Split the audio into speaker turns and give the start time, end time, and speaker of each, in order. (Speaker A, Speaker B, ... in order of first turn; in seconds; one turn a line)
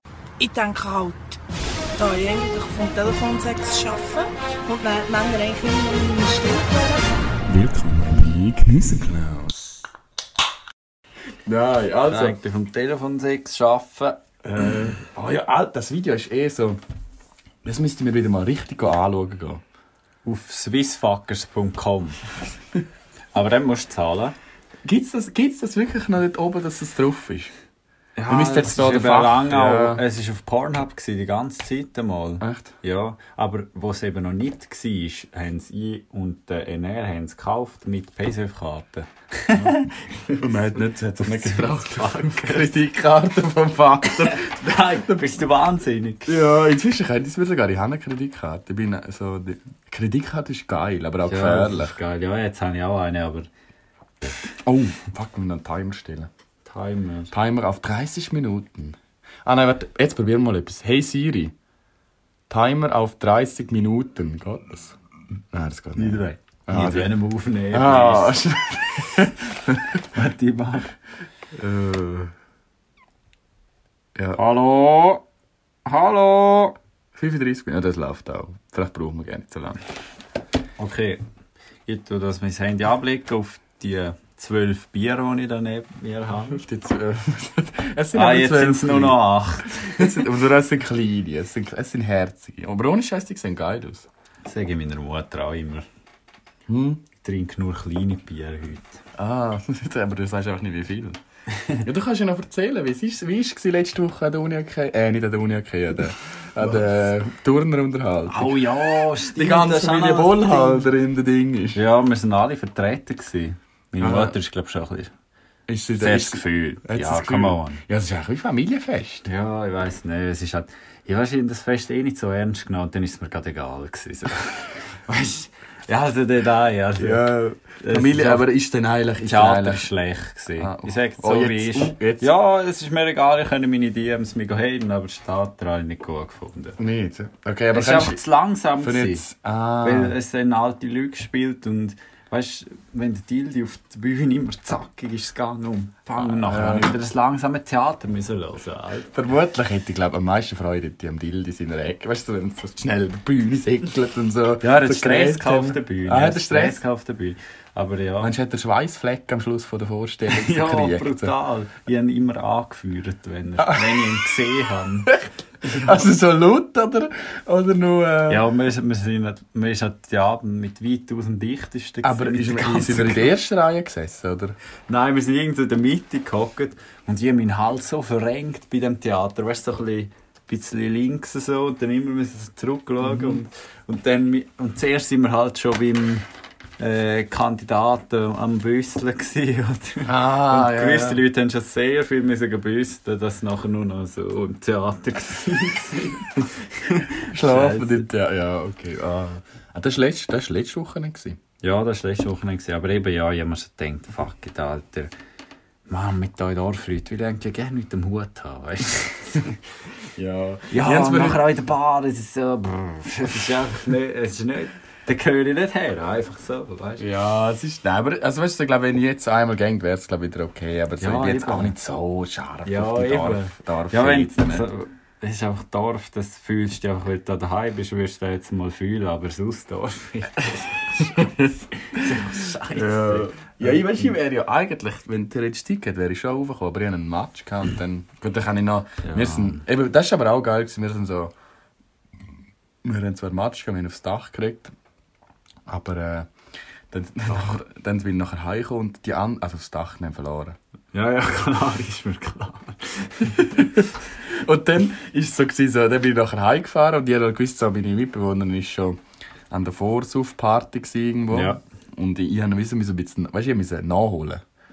Speaker A: 0.4-1.4
Speaker A: 2.0-7.0
Speaker B: 7.5-9.8
Speaker B: 11.4-12.4
Speaker C: 12.1-14.2
Speaker B: 14.4-16.8
Speaker B: 17.6-19.6
Speaker C: 20.2-22.2
Speaker C: 23.3-24.3
Speaker B: 24.8-27.5
Speaker C: 28.2-40.4
Speaker B: 28.3-30.0
Speaker B: 32.4-32.7
Speaker B: 39.5-44.5
Speaker C: 41.2-42.7
Speaker C: 44.2-46.4
Speaker B: 46.3-52.0
Speaker C: 51.3-53.5
Speaker B: 54.6-56.3
Speaker C: 56.6-57.3
Speaker B: 57.3-61.5
Speaker B: 62.5-65.0
Speaker B: 65.5-67.2
Speaker C: 66.0-68.4
Speaker B: 67.7-70.1
Speaker C: 70.1-70.9
Speaker B: 71.5-72.3
Speaker C: 74.3-75.2
Speaker C: 75.8-76.8
Speaker B: 77.1-79.8
Speaker C: 80.8-81.2
Speaker C: 81.9-86.6
Speaker B: 86.5-94.1
Speaker C: 88.1-90.2
Speaker C: 94.5-95.9
Speaker B: 96.7-97.0
Speaker C: 97.2-99.0
Speaker B: 99.2-101.2
Speaker C: 101.5-101.9
Speaker B: 101.8-111.8
Speaker C: 108.3-110.9
Speaker C: 111.7-115.1
Speaker B: 114.0-114.4
Speaker B: 115.7-119.3
Speaker C: 116.0-117.8
Speaker C: 119.3-128.5
Speaker B: 127.0-129.9
Speaker C: 129.2-136.8
Speaker B: 130.6-132.3
Speaker B: 136.8-138.2
Speaker C: 137.7-139.2
Speaker B: 138.8-140.2
Speaker C: 139.8-149.1
Speaker B: 146.2-147.0
Speaker B: 149.1-156.8
Speaker C: 154.6-158.3
Speaker B: 158.2-161.3
Speaker C: 160.3-166.1
Speaker B: 163.6-164.3
Speaker B: 165.1-168.4
Speaker C: 168.3-173.3
Speaker B: 172.0-174.6
Speaker C: 174.9-186.2
Speaker B: 183.0-183.4
Speaker C: 186.8-198.1
Speaker B: 190.1-191.2
Speaker B: 197.2-201.4
Speaker C: 201.6-205.1
Speaker C: 205.9-209.7
Speaker B: 210.1-211.4
Speaker C: 210.7-217.1
Speaker B: 217.0-224.7
Speaker C: 221.0-221.7
Speaker C: 222.6-234.0
Speaker B: 231.0-241.3
Speaker C: 239.0-239.6
Speaker B: 242.8-244.7
Speaker B: 245.7-246.3
Speaker B: 246.9-250.6
Speaker C: 250.9-253.4
Speaker B: 253.2-264.4
Speaker C: 261.3-261.6